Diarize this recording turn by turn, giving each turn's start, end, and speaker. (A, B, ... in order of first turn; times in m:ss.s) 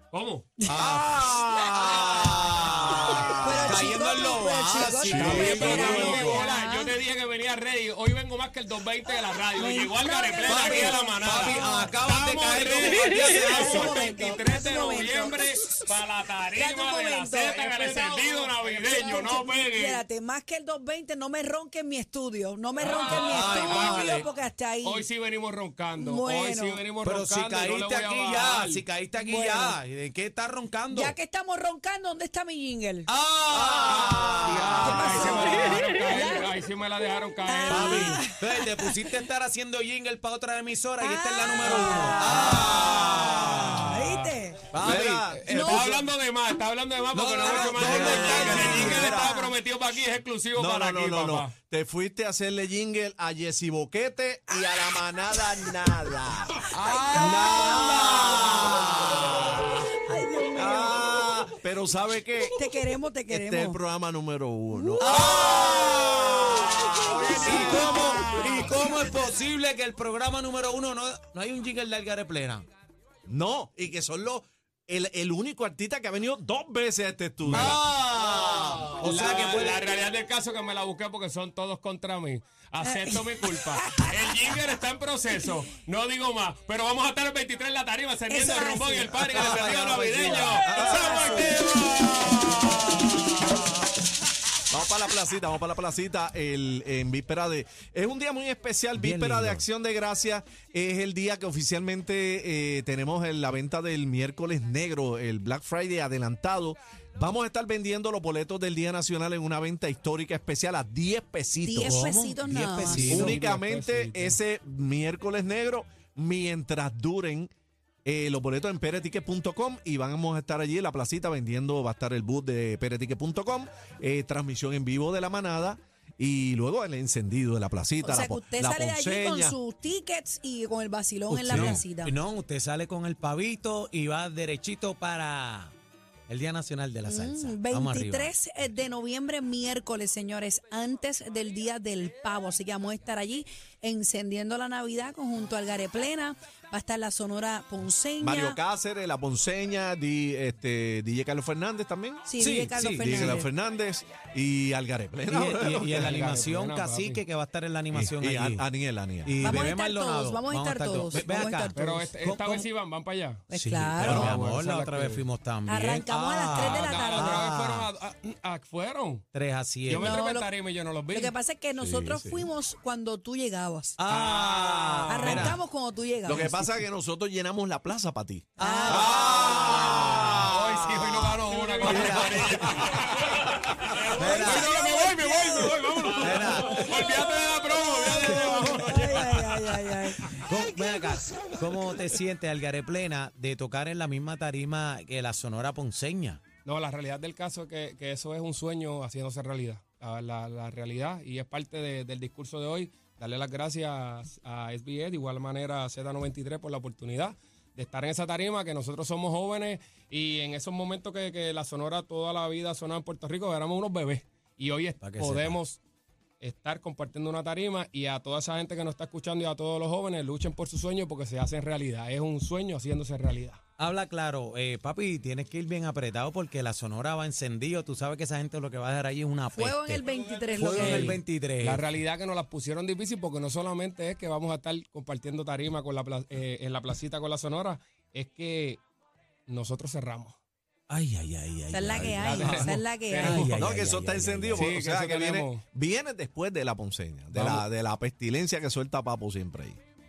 0:00.1-0:00.6 A
0:00.7-0:01.3 B
0:00.7-0:03.8 C
0:01.8-0:06.4 B
0:03.0-0:06.9 D
0:05.0-0:06.4 C
0:05.1-0:20.0 A
0:09.4-0:11.7 D
0:10.4-0:14.0 B
0:13.2-0:15.9 D
0:16.5-0:25.0 D
0:22.8-0:24.3 A
0:23.1-0:24.2 B
0:24.8-0:28.8 A
0:26.0-0:26.8 D
0:27.0-0:31.1 B
0:29.2-0:29.8 D
0:30.9-0:33.1 D
0:33.1-0:35.8 B
0:33.5-0:34.9 C
0:33.8-0:38.2 A
0:34.8-0:36.5 D
0:37.4-0:39.2 D
0:37.7-0:43.9 B
0:41.0-0:44.7 D
0:41.6-0:51.5 A
0:44.7-0:45.3 B
0:44.8-0:46.0 C
0:45.5-0:46.0 D
0:47.1-0:49.1 B
0:47.6-0:49.3 C
0:48.3-0:49.5 D
0:50.5-0:59.7 C
0:54.8-0:55.8 D
0:56.7-0:59.2 A
0:56.8-0:58.2 D
0:57.9-0:58.3 B
0:59.9-1:01.5 D
1:00.5-1:02.6 C
1:02.5-1:03.8 D
1:03.3-1:05.6 C
1:04.7-1:05.3 D
1:05.0-1:12.6 B
1:05.1-1:08.9 A
1:06.8-1:09.1 D
1:07.4-1:07.8 C
1:13.3-1:17.8 C
1:17.5-1:17.8 A
1:17.5-1:19.8 B
1:19.0-1:31.8 A
1:22.8-1:24.2 D
1:28.3-1:29.4 D
1:29.3-1:33.0 C
1:30.3-1:31.5 D
1:34.7-1:52.0 C
1:38.9-1:39.6 B
1:51.6-1:53.2 D
1:51.8-1:53.4 B
1:53.0-1:57.5 C
1:53.0-1:54.4 A
1:58.0-2:09.6 C
2:08.0-2:12.1 D
2:11.3-2:15.7 B
2:11.5-2:11.8 C
2:16.3-2:18.3 B
2:17.0-2:28.6 D
2:28.2-2:36.2 C
2:32.3-2:33.5 D
2:32.4-2:33.4 B
2:35.3-2:38.7 B
2:35.9-2:37.2 A
2:37.9-2:39.7 C
2:39.2-2:42.6 B
2:39.4-2:42.1 D
2:41.7-2:43.5 A
2:43.5-2:44.3 D
2:43.5-2:47.9 B
2:44.0-2:44.4 C
2:44.0-2:45.2 A
2:45.6-2:47.4 D
2:46.5-2:49.3 A
2:49.3-2:50.2 B
2:49.8-2:51.4 A
2:49.9-2:50.5 D
2:51.1-2:54.0 D
2:51.9-2:52.4 B
2:54.0-2:55.6 B
2:54.1-2:55.5 A
2:55.1-2:56.6 D
2:56.2-3:01.3 C
2:58.6-3:00.5 B
2:58.6-2:59.2 D
2:59.3-3:10.3 A
3:01.8-3:02.8 B
3:01.8-3:03.1 C
3:04.1-3:11.5 D
3:04.2-3:04.7 B
3:06.2-3:06.8 B
3:08.3-3:08.7 B
3:10.4-3:16.4 B
3:11.3-3:12.0 A
3:16.6-3:35.8 A
3:35.0-3:35.6 B
3:36.4-3:43.6 A
3:43.8-3:50.0 B
3:49.5-3:51.2 D
3:50.3-3:58.8 A
3:50.6-3:51.8 B
3:59.5-4:00.4 A
4:00.9-4:04.7 B
4:01.7-4:03.4 D
4:02.2-4:03.7 A
4:03.5-4:09.8 C
4:04.6-4:05.6 A
4:07.3-4:07.6 A